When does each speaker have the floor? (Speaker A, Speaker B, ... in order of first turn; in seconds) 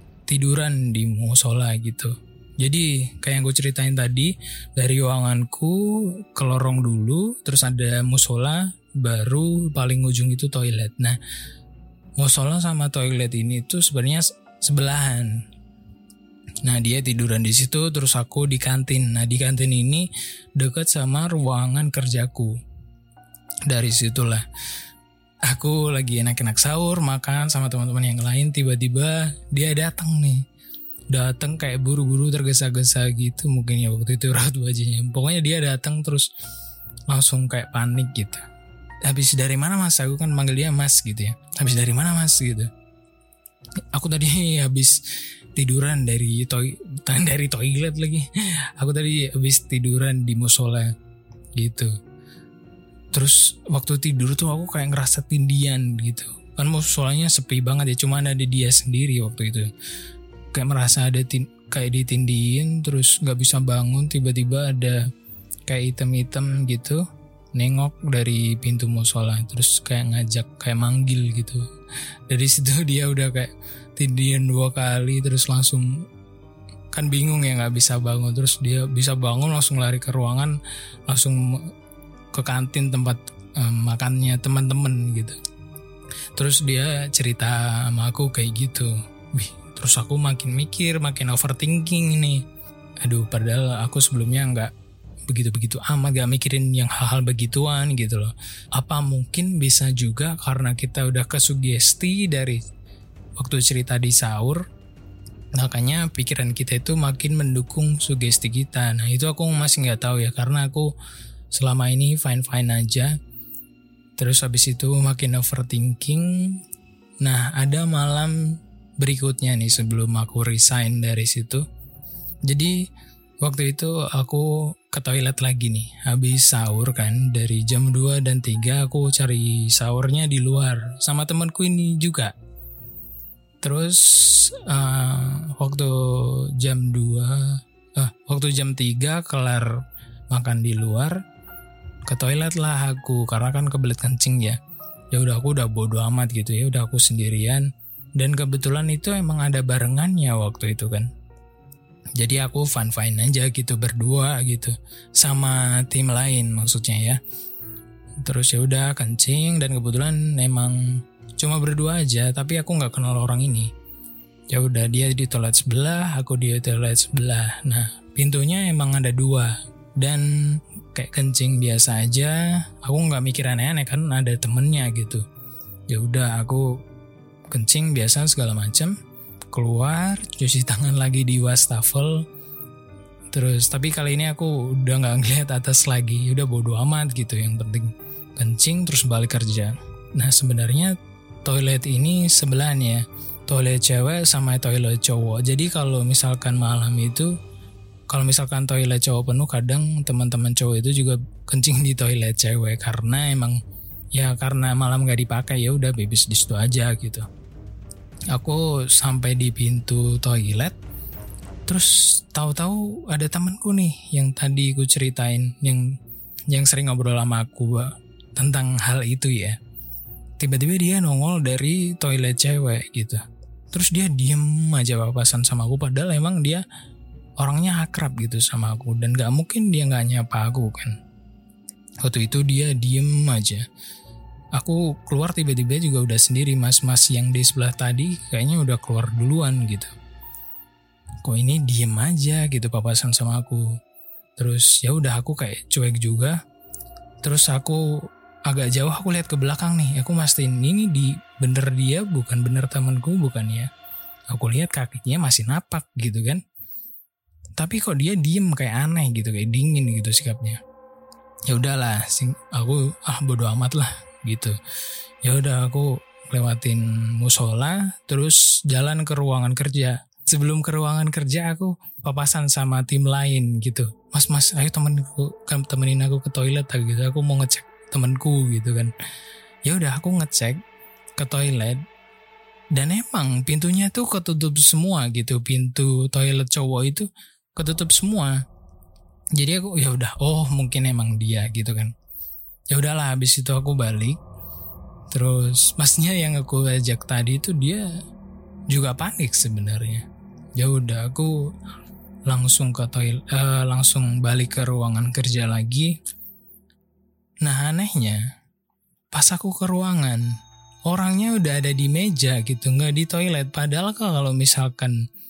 Speaker A: 0.3-11.2, 12.2-15.4, 16.6-22.5, 23.7-24.4, 25.5-30.4, 31.1-36.3, 37.1-38.4, 39.1-42.7, 43.9-45.0, 45.5-50.9, 51.6-51.9, 53.1-59.7, 60.5-65.0, 65.7-67.0, 67.6-71.6, 72.3-75.9, 76.9-80.5, 81.1-81.4, 82.3-85.4, 86.4-92.4, 93.0-94.7, 95.3-102.6, 103.4-104.6, 105.6-110.9, 111.5-113.1, 114.2-116.6, 117.2-118.4, 119.0-121.6, 122.5-122.8, 123.4-132.3, 133.6-139.7, 140.3-141.2, 142.1-144.6, 145.1-147.7, 148.2-151.1, 152.2-157.2, 158.2-160.8, 161.4-163.7, 164.5-175.2, 175.9-176.7, 177.5-178.9, 179.5-182.2, 183.3-190.9, 191.5-197.3, 198.1-203.6, 204.2-207.3, 208.3-210.8, 211.7-215.9, 216.5-219.6, 220.4-226.6, 227.4-230.9, 232.0-233.6, 234.6-239.9, 241.2-243.7, 244.4-246.4, 247.2-247.8, 248.5-253.7, 254.3-256.4, 257.6-260.6, 261.5-264.6, 265.2-278.9, 279.7-280.6, 281.2-281.8, 282.8-288.4, 289.4-291.9, 292.7-294.2, 295.1-297.8, 298.7-300.1, 300.6-301.3, 302.3-305.9, 307.4-308.2, 309.1-310.2, 310.9-315.0